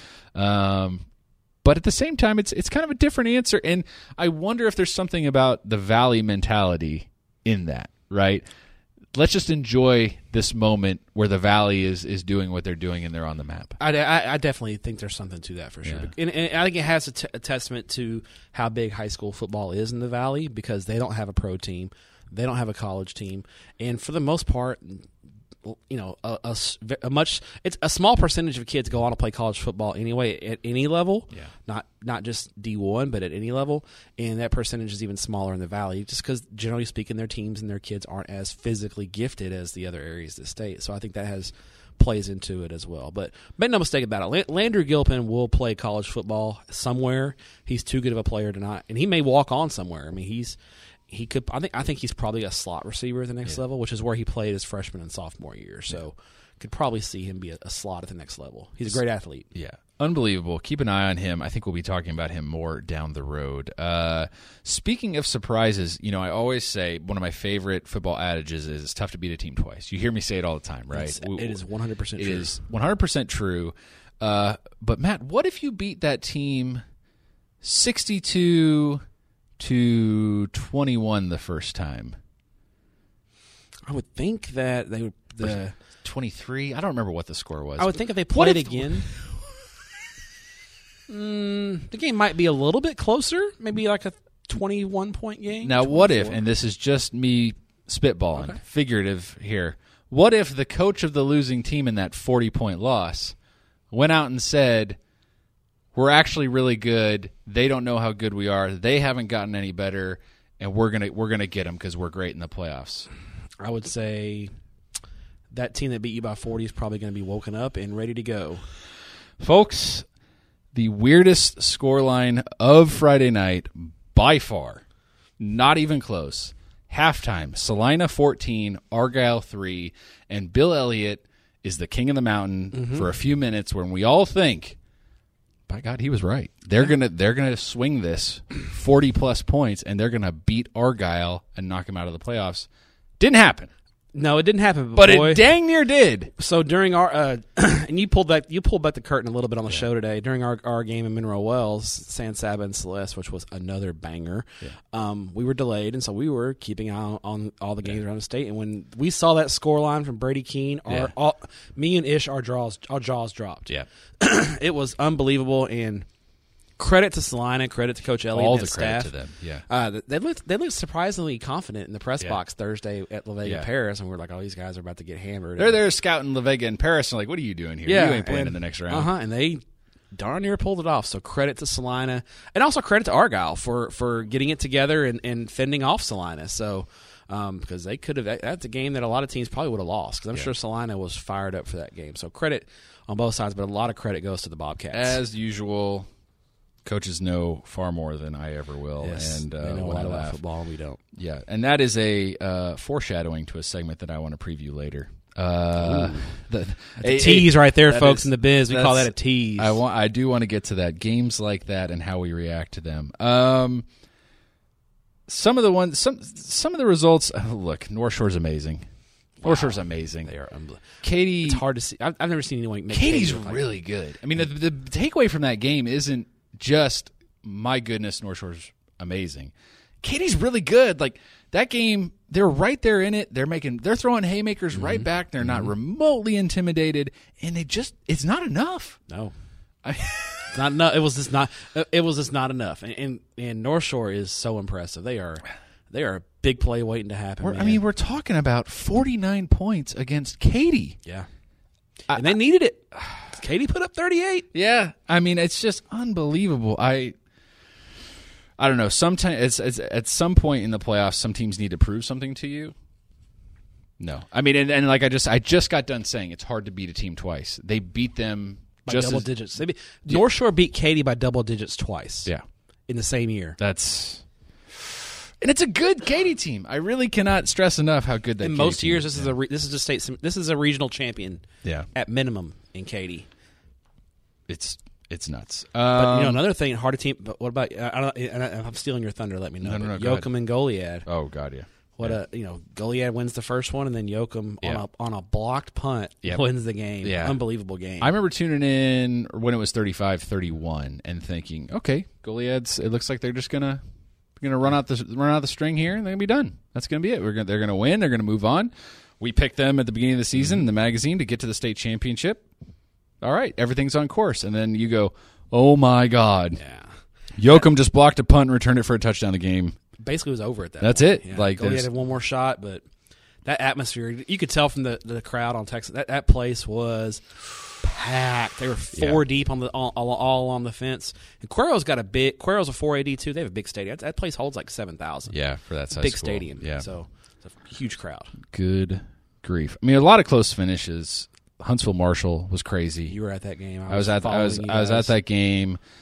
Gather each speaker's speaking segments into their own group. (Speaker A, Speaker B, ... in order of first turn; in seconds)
Speaker A: 0.3-1.1, 1.6-8.4, 9.1-13.8, 15.8-16.1, 59.5-71.6, 72.2-76.8, 77.6-79.0, 79.6-82.2, 85.4-89.1, 95.6-103.3, 103.9-105.0, 105.9-113.1, 119.4-120.0, 120.7-124.8, 125.4-134.8, 135.7-142.7, 143.2-143.7, 144.9-146.3, 168.3-169.6, 175.6-179.1, 194.9-196.1, 196.8-200.4, 201.1-213.9, 215.3-218.8, 219.4-220.3, 221.0-221.6, 222.9-239.0, 239.8-240.5, 247.4-251.0, 252.1-252.3, 254.5-257.1, 258.6-262.8, 264.0-269.3, 273.6-279.3, 284.5-286.4, 289.6-290.3, 291.1-292.2, 297.0-297.4, 298.0-303.8, 304.4-312.4, 313.2-316.6, 317.4-319.8, 320.8-321.9, 328.9-329.2, 335.3-336.9, 338.4-343.1, 343.9-345.8
Speaker B: 13.8-25.1, 25.6-50.6, 51.1-59.5, 70.9-72.5, 83.9-85.8, 87.8-89.1, 91.1-96.4, 98.3-98.6, 113.6-114.5, 115.5-118.7, 132.7-133.1, 144.1-145.4, 146.4-166.1, 166.8-169.1, 169.7-175.8, 177.8-195.2, 199.0-201.0, 205.8-206.3, 207.0-209.8, 219.4-223.6, 234.7-235.7, 239.1-239.3, 240.5-247.8, 252.1-254.5, 268.9-272.3, 272.9-273.6, 278.4-283.3, 285.9-291.1, 292.0-298.1, 316.6-316.9, 320.0-322.8, 323.4-335.3, 335.9-338.3, 343.1-345.1